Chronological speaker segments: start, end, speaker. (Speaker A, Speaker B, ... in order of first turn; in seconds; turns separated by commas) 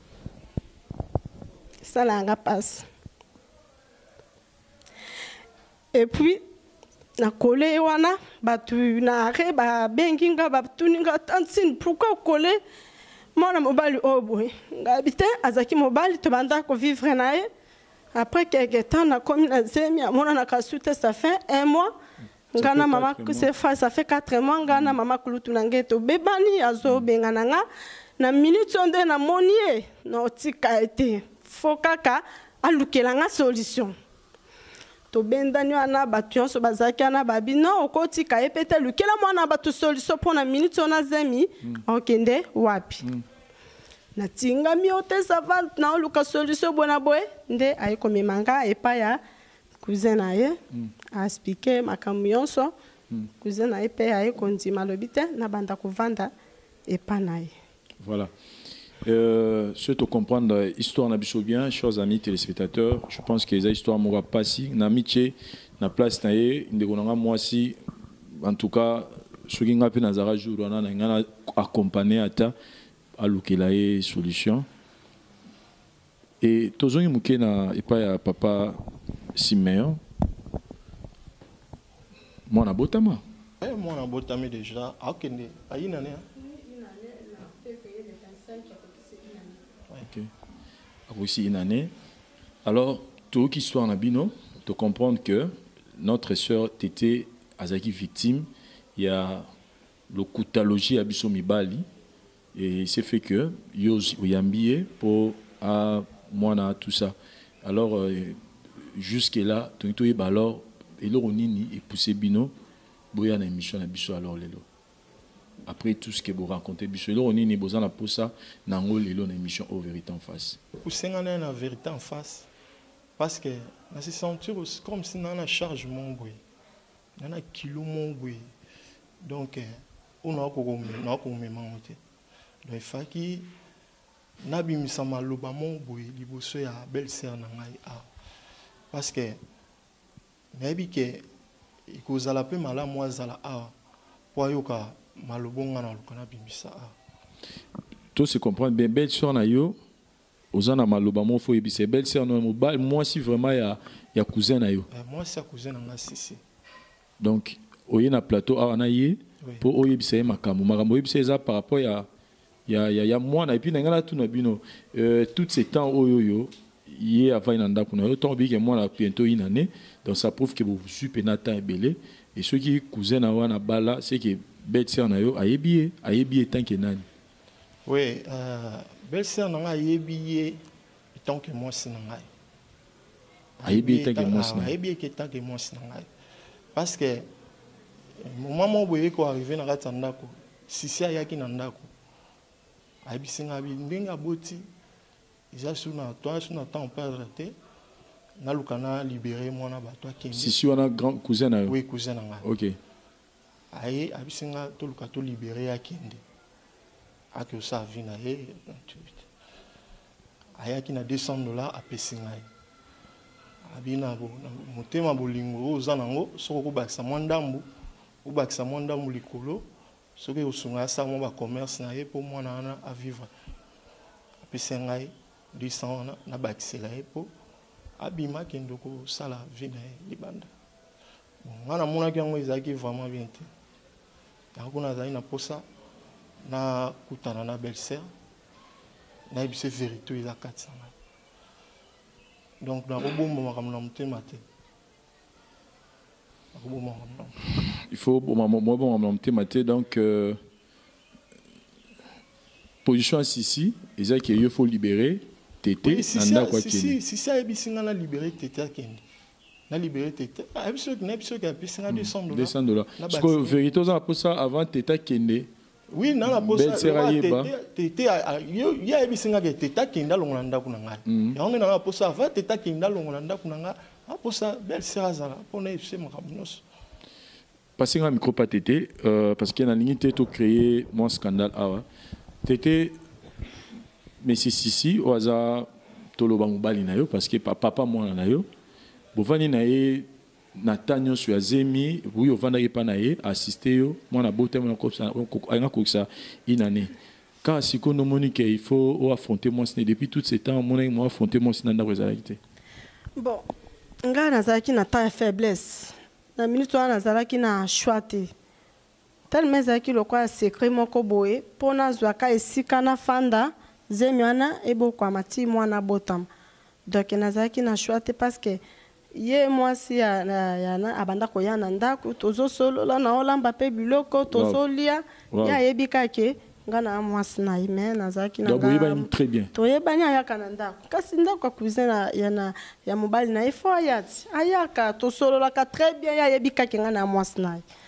Speaker A: 1.8-2.9, Speaker A: 5.9-6.4, Speaker A: 7.2-12.6, Speaker A: 13.4-17.5, Speaker A: 18.1-21.9, Speaker A: 22.6-27.6, Speaker B: 22.6-23.5, Speaker B: 24.7-25.0, Speaker A: 28.2-34.0, Speaker A: 35.1-43.0, Speaker A: 44.2-49.2, Speaker A: 49.8-50.6, Speaker A: 51.1-52.7, Speaker A: 53.4-56.3, Speaker A: 56.9-57.5, Speaker B: 58.0-58.3, Speaker B: 59.0-67.8, Speaker B: 68.4-72.5, Speaker B: 73.2-74.7, Speaker B: 76.4-78.8, Speaker B: 79.4-80.0, Speaker B: 82.5-83.2, Speaker C: 83.6-86.3, Speaker A: 86.4-89.6, Speaker B: 91.1-91.9, Speaker B: 92.7-99.5, Speaker B: 100.1-101.9, Speaker B: 102.5-108.4, Speaker B: 108.9-112.5, Speaker B: 113.1-114.6, Speaker B: 115.7-120.6, Speaker C: 120.8-122.5, Speaker C: 123.2-126.4, Speaker C: 127.2-128.5, Speaker C: 129.2-129.7, Speaker C: 130.2-132.0, Speaker C: 132.7-133.5, Speaker C: 134.4-138.1, Speaker C: 138.9-139.4, Speaker C: 140.5-141.2, Speaker C: 141.9-143.7, Speaker C: 144.3-146.9, Speaker B: 148.2-149.8, Speaker B: 150.5-154.9, Speaker C: 154.9-156.4, Speaker B: 157.2-162.1, Speaker B: 162.7-177.1, Speaker C: 177.9-180.6, Speaker C: 181.2-182.3, Speaker C: 183.6-186.1, Speaker B: 183.7-184.7, Speaker C: 186.8-187.3, Speaker C: 188.2-191.9, Speaker C: 193.1-194.6, Speaker C: 195.5-197.6, Speaker C: 198.4-200.6, Speaker B: 200.3-201.8, Speaker C: 201.7-202.4, Speaker B: 202.4-202.8, Speaker C: 203.7-206.2, Speaker C: 207.3-209.3, Speaker C: 210.6-212.5, Speaker C: 213.7-217.7, Speaker C: 218.2-219.7, Speaker C: 220.2-223.3, Speaker C: 224.5-227.3, Speaker C: 228.0-230.5, Speaker C: 231.4-233.5, Speaker C: 234.6-235.6, Speaker C: 236.5-238.1, Speaker C: 239.3-240.9, Speaker C: 242.6-244.4, Speaker C: 246.5-247.3, Speaker B: 247.9-250.4, Speaker B: 252.8-257.0, Speaker C: 255.8-259.0, Speaker C: 259.7-263.6, Speaker B: 261.9-265.5, Speaker C: 265.9-276.6, Speaker B: 266.3-267.5, Speaker B: 271.1-271.4, Speaker B: 277.8-281.9, Speaker B: 282.4-283.0, Speaker B: 284.2-288.5, Speaker B: 289.1-296.9, Speaker B: 297.4-302.4, Speaker A: 303.2-303.4, Speaker A: 304.1-308.3, Speaker A: 309.3-316.3, Speaker A: 316.9-318.6, Speaker A: 319.1-337.6, Speaker B: 324.3-324.6, Speaker B: 325.3-325.6, Speaker B: 328.4-329.5